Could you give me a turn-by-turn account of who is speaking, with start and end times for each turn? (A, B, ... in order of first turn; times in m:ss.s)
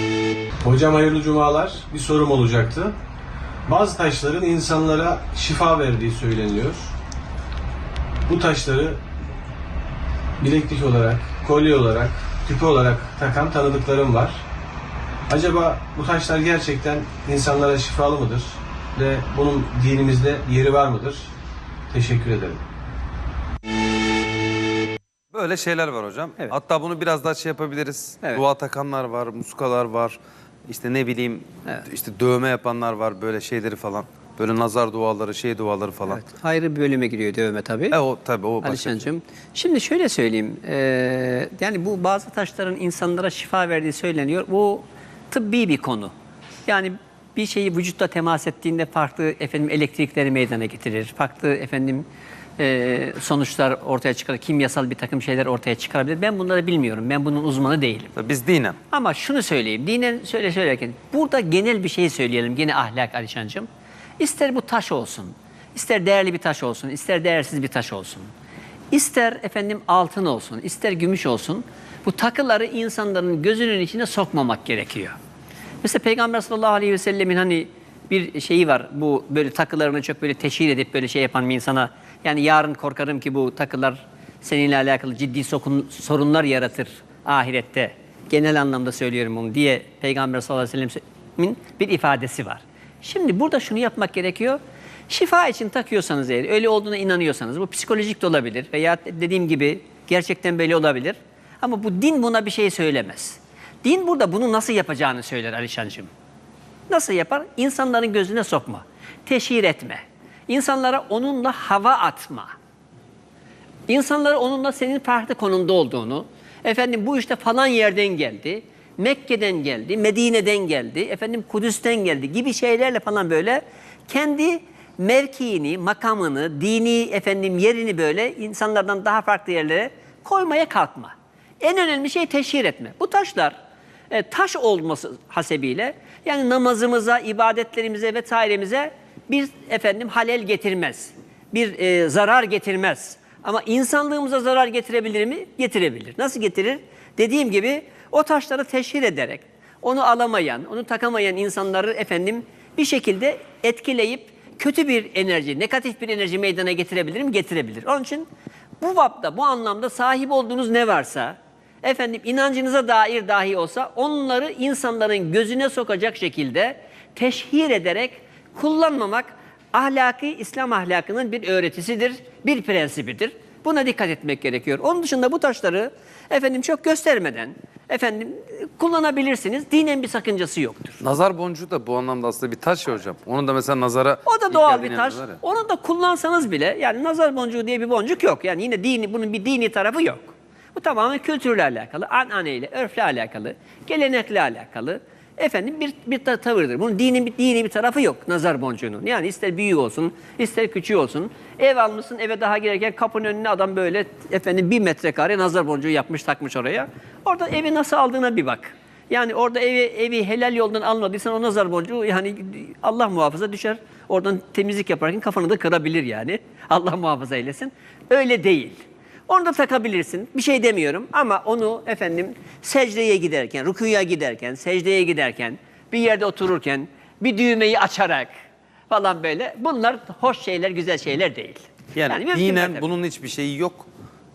0:00.6-0:03.0 A
0:03.7-0:06.9 A
0:08.3-0:09.0 A
0:10.4-0:14.4 A
0:15.3-0:21.3 A
0:21.9-0:22.6 A
0:25.3-0:36.2 B
0:36.1-0:38.0 C
0:37.9-0:39.0 B
0:38.6-0:46.1 C
0:46.7-0:52.1 C
0:52.6-0:58.1 C
0:58.2-0:58.8 B
0:58.9-1:03.7 C
1:04.2-1:08.3 C
1:08.9-1:15.2 C
1:15.8-1:46.1 C
1:46.9-1:52.5 C
1:53.9-2:13.6 C
2:14.1-2:38.3 C
2:38.8-3:01.0 C
3:01.0-3:05.4 B
3:04.2-3:48.3 C
3:48.9-3:52.9 C
3:52.0-3:53.9 B